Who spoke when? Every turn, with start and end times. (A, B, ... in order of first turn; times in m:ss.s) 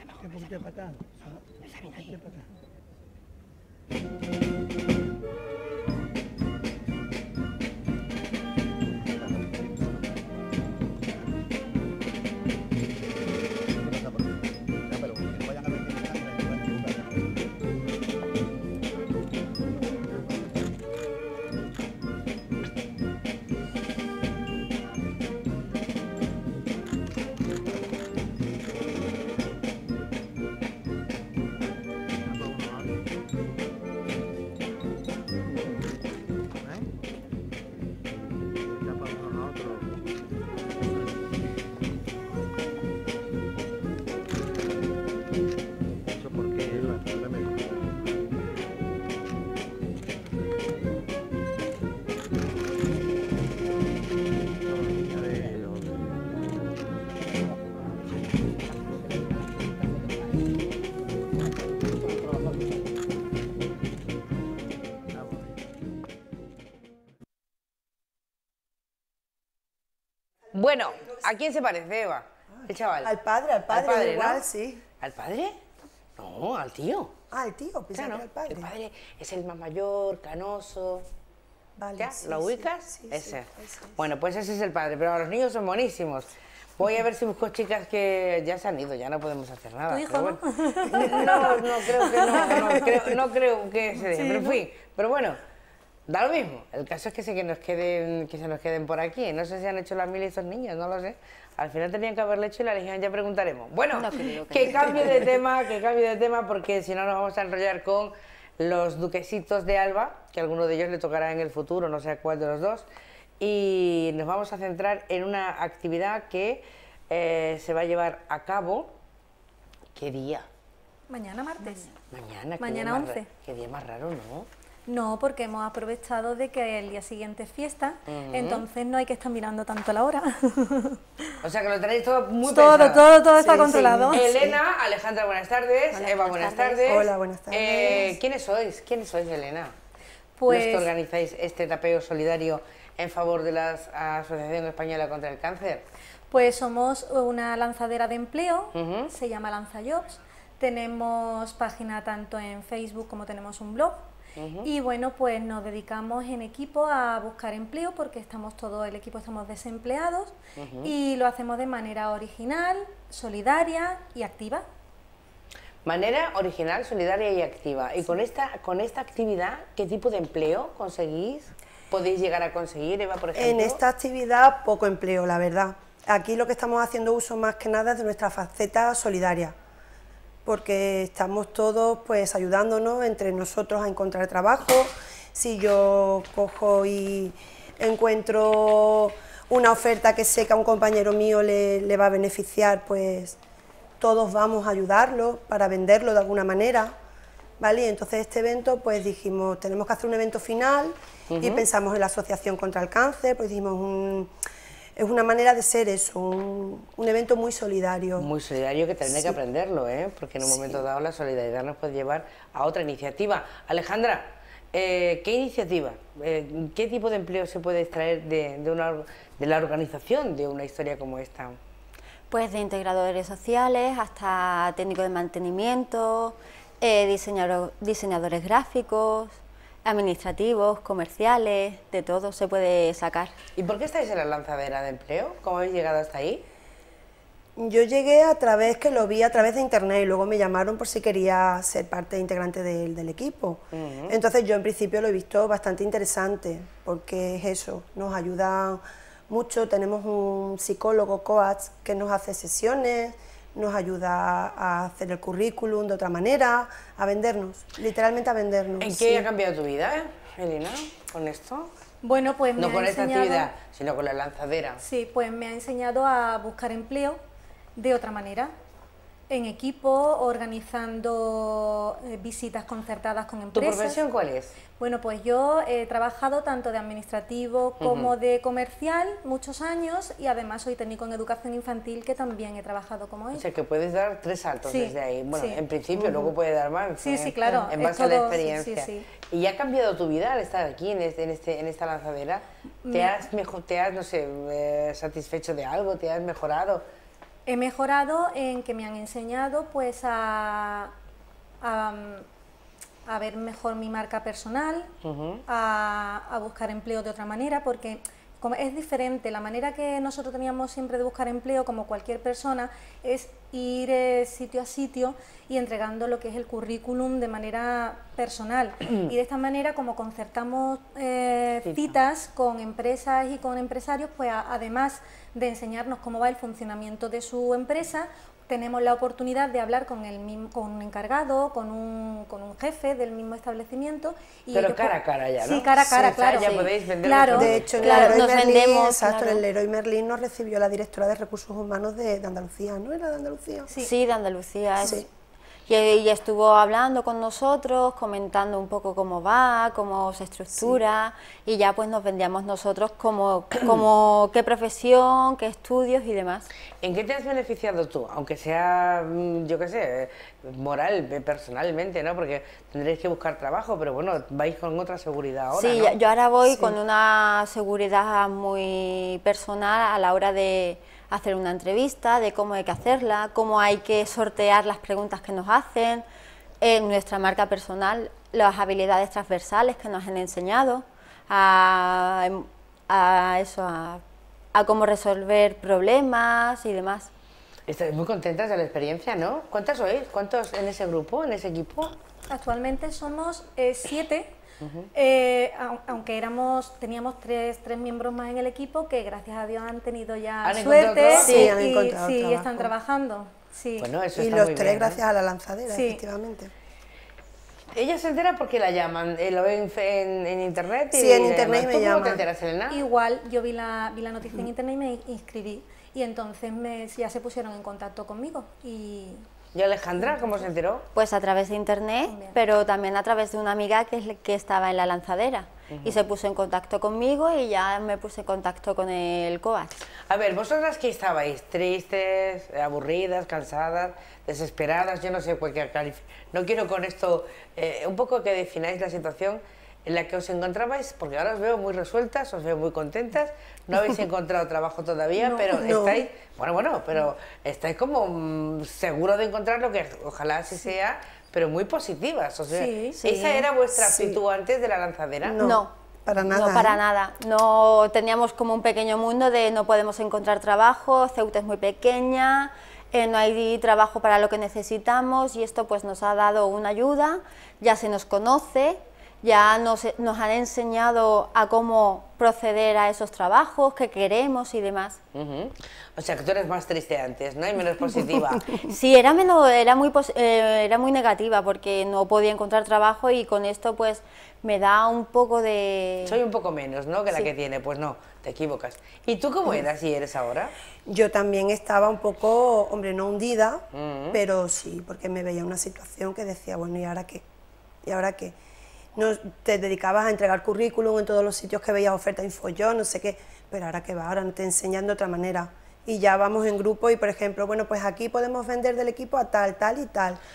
1:10.5-1:13.1 A
1:12.6-1:14.8 B
1:13.7-1:14.4 A
1:15.0-1:15.6 A
1:16.2-1:17.2 A
1:17.3-1:18.7 B
1:18.0-1:21.1 A
1:21.8-1:24.0 B
1:22.0-1:35.4 A
1:29.9-1:32.9 C
1:34.2-1:34.6 C
1:36.1-1:52.9 A
1:43.9-1:45.3 D
1:53.4-1:58.9 A
2:00.0-2:00.5 A
2:01.1-2:01.9 C
2:02.1-2:04.5 A
2:02.6-2:03.3 C
2:04.9-2:11.0 C
2:08.1-2:08.6 A
2:11.4-2:19.7 A
2:12.4-2:14.4 C
2:15.9-2:17.0 D
2:16.8-2:18.1 B
2:20.4-2:20.9 C
2:20.5-2:25.8 A
2:26.3-2:34.0 C
2:28.7-2:29.1 A
2:34.4-2:34.7 A
2:34.6-2:44.6 C
2:40.6-2:40.9 A
2:45.8-2:53.8 A
2:53.4-2:59.5 B
3:00.4-3:13.4 B
3:14.0-3:16.9 B
3:17.6-3:24.3 B
3:21.3-3:21.6 A
3:25.0-3:28.3 B
3:28.2-3:41.6 A
3:29.1-3:29.4 B
3:30.4-3:30.8 B
3:42.3-3:53.3 D
3:53.6-3:56.4 A
3:57.6-4:19.3 B
4:03.7-4:04.2 A
4:18.8-4:21.7 A
4:22.0-4:23.5 C
4:22.6-4:24.8 A
4:24.8-4:27.2 C
4:27.8-4:28.5 C
4:29.3-4:34.0 C
4:33.5-4:34.5 A
4:34.8-4:43.5 C
4:37.8-4:38.1 A
4:43.3-4:56.8 A
4:44.6-4:45.6 C
4:46.0-4:46.3 B
4:47.0-4:49.1 C
4:52.8-4:53.3 C
4:57.4-5:00.9 C
5:01.6-5:02.3 C
5:03.1-5:04.9 C
5:05.0-5:05.4 A
5:05.5-5:37.5 C
5:21.6-5:22.0 A
5:34.5-5:38.2 A
5:37.3-5:43.7 B
5:37.8-5:39.4 D
5:43.7-5:43.9 C
5:43.8-5:45.1 D
5:45.7-5:56.5 D
5:50.5-5:50.8 B
5:56.8-6:05.9 A
6:05.6-6:16.0 D
6:06.4-6:06.8 B
6:16.6-6:24.0 D
6:24.6-6:27.1 D
6:27.7-6:32.0 A
6:32.3-6:34.3 C
6:34.6-6:34.9 A
6:34.9-6:43.9 C
6:40.4-6:41.5 A
6:41.1-6:42.7 B
6:41.3-6:41.5 D
6:43.8-6:45.0 A
6:44.2-6:46.5 B
6:45.7-6:46.0 C
6:47.7-6:52.8 A
6:50.9-6:52.2 B
6:52.7-6:59.3 C
6:59.5-7:00.9 A
7:00.0-7:00.4 C
7:00.9-7:09.8 D
7:02.0-7:02.4 C
7:05.7-7:06.0 A
7:10.1-7:35.4 A
7:25.2-7:26.0 B
7:32.5-7:33.4 C
7:33.7-7:34.2 B
7:35.2-7:36.8 B
7:35.4-7:55.0 D
7:55.1-7:58.5 A
7:58.7-8:06.2 D
8:06.1-8:10.5 A
8:10.9-8:17.2 B
8:13.7-8:14.2 A
8:17.8-8:18.4 B
8:19.0-8:30.2 B